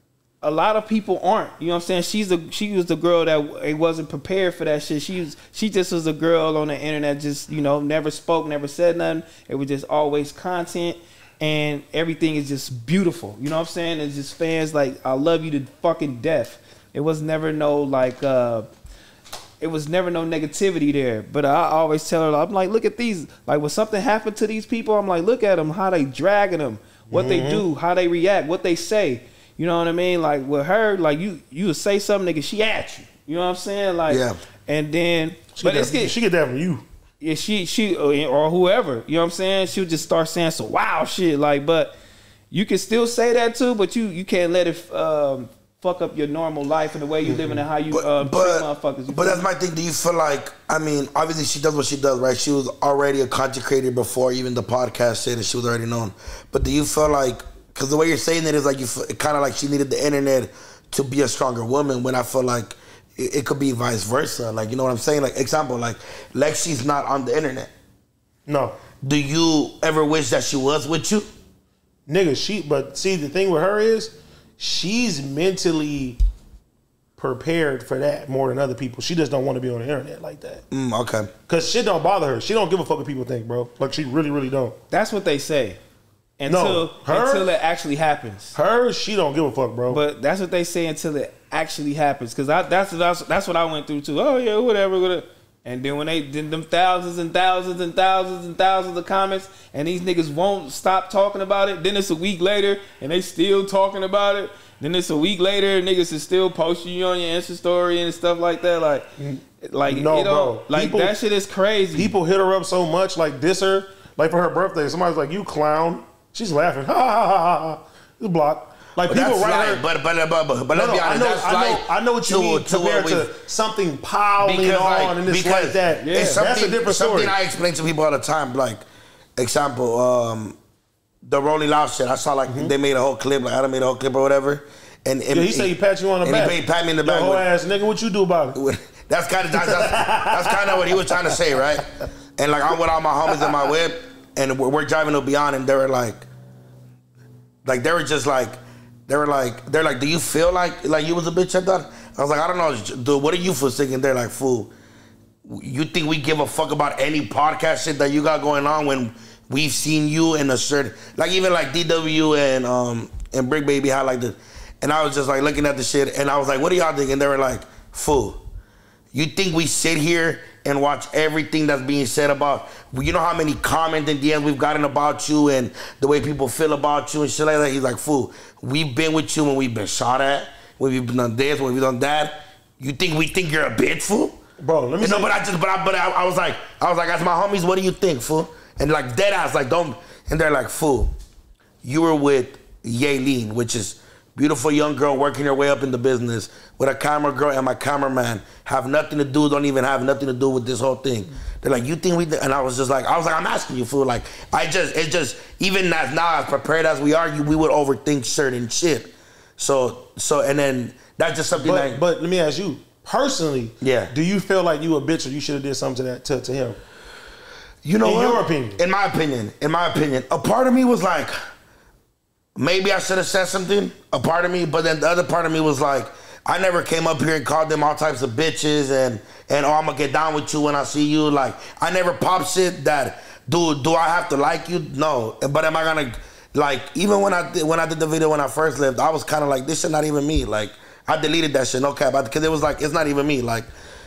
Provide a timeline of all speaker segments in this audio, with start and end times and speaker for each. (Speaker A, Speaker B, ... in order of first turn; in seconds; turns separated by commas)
Speaker A: 0.4-18.7, Speaker A: 19.6-36.1, Speaker B: 27.1-27.6, Speaker C: 34.1-34.4, Speaker B: 35.5-36.8, Speaker A: 37.2-42.0, Speaker A: 42.5-49.5, Speaker B: 47.2-47.6, Speaker C: 47.9-67.7, Speaker B: 68.5-68.8, Speaker C: 69.0-71.3, Speaker B: 72.1-76.2, Speaker B: 77.2-80.6, Speaker C: 80.7-81.3, Speaker B: 81.5-84.8, Speaker A: 84.9-85.8, Speaker A: 86.4-88.5, Speaker B: 86.5-87.5, Speaker B: 88.5-90.0, Speaker A: 89.9-109.1, Speaker B: 109.2-111.1, Speaker A: 109.6-112.1, Speaker B: 111.9-119.8, Speaker C: 119.0-123.3, Speaker B: 120.7-127.3, Speaker C: 124.4-128.8, Speaker A: 126.0-126.4, Speaker C: 129.4-130.6, Speaker C: 131.2-137.5, Speaker B: 132.5-132.7, Speaker B: 135.3-138.6, Speaker C: 138.5-146.2, Speaker B: 139.6-140.8, Speaker C: 147.6-154.7, Speaker C: 155.4-168.4, Speaker C: 169.1-184.4, Speaker B: 184.6-185.3, Speaker C: 185.0-191.1, Speaker C: 191.8-212.0, Speaker B: 211.5-216.8, Speaker C: 213.8-214.1, Speaker C: 217.8-221.3, Speaker B: 218.0-218.8, Speaker C: 222.6-243.7